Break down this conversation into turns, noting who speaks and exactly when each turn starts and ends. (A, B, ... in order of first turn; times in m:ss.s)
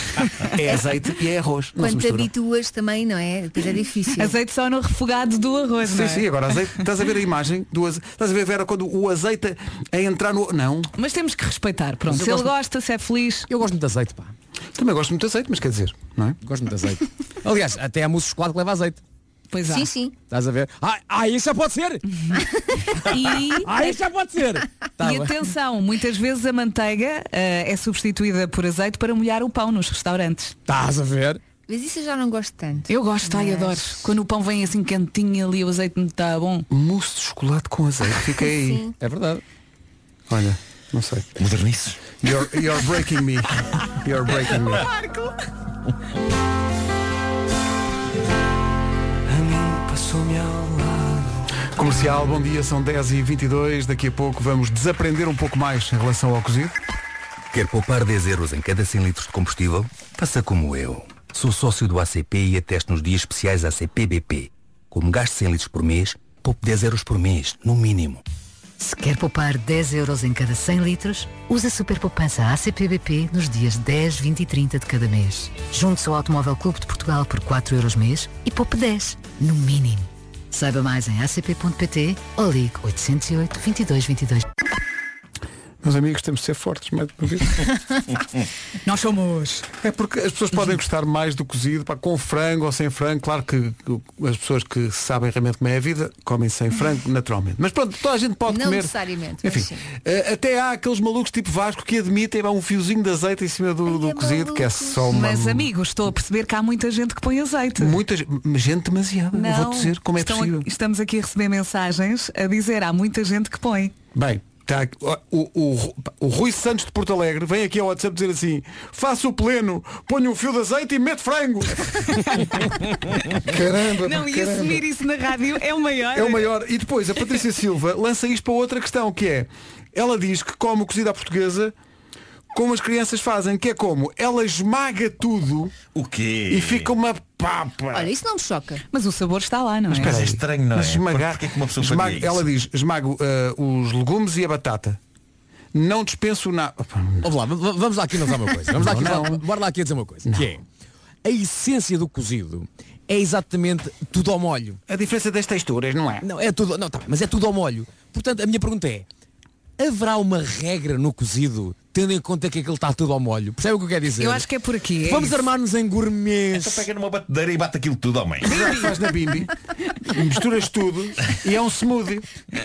0:00.4-0:02.3 A
0:00.6-0:01.0 B
0:01.8-0:04.4 B
0:04.2-0:06.5 C
0:05.8-0:10.9 A
0:11.0-0:13.5 C
0:12.1-0:12.5 D
0:13.5-0:14.3 D
0:14.8-0:16.4 A
0:16.4-0:19.0 D
0:19.5-0:19.9 C
0:19.7-0:20.1 B
0:20.3-0:22.0 D
0:23.0-0:25.3 D
0:23.0-0:24.0 C
0:25.0-0:30.6 C
0:30.7-0:31.4 D
0:31.7-0:33.9 B
0:32.9-0:36.7 C
0:36.7-0:38.8 A
0:38.4-0:38.9 B
0:39.0-0:39.4 D
0:40.3-0:41.4 A
0:41.4-0:42.0 E
0:42.2-0:44.9 A
0:49.3-0:56.8 A
0:57.5-1:08.2 F
1:08.8-1:24.4 G
1:25.8-1:27.7 A
1:28.8-1:29.7 C
1:29.8-1:45.7 A
1:38.5-1:39.8 B
1:43.8-1:45.1 B
1:45.1-1:48.0 C
1:47.8-1:50.7 A
1:49.3-1:53.9 C
1:54.1-2:02.7 A
2:03.2-2:04.8 A
2:03.9-2:06.5 C
2:06.1-2:11.7 A
2:12.5-2:15.7 A
2:15.9-2:16.9 E
2:16.5-2:18.1 A
2:17.9-2:18.8 B
2:18.9-2:20.2 C
2:19.9-2:25.0 A
2:19.9-2:22.5 E
2:25.7-2:27.3 A
2:27.2-2:30.6 D
2:28.7-2:29.4 A
2:31.2-2:34.8 D
2:34.9-2:36.2 A
2:36.2-2:39.0 D
2:39.8-2:44.4 D
2:44.2-2:45.5 C
2:45.0-2:46.9 D
2:46.5-2:48.5 E
2:48.4-2:49.0 C
2:48.4-2:52.3 A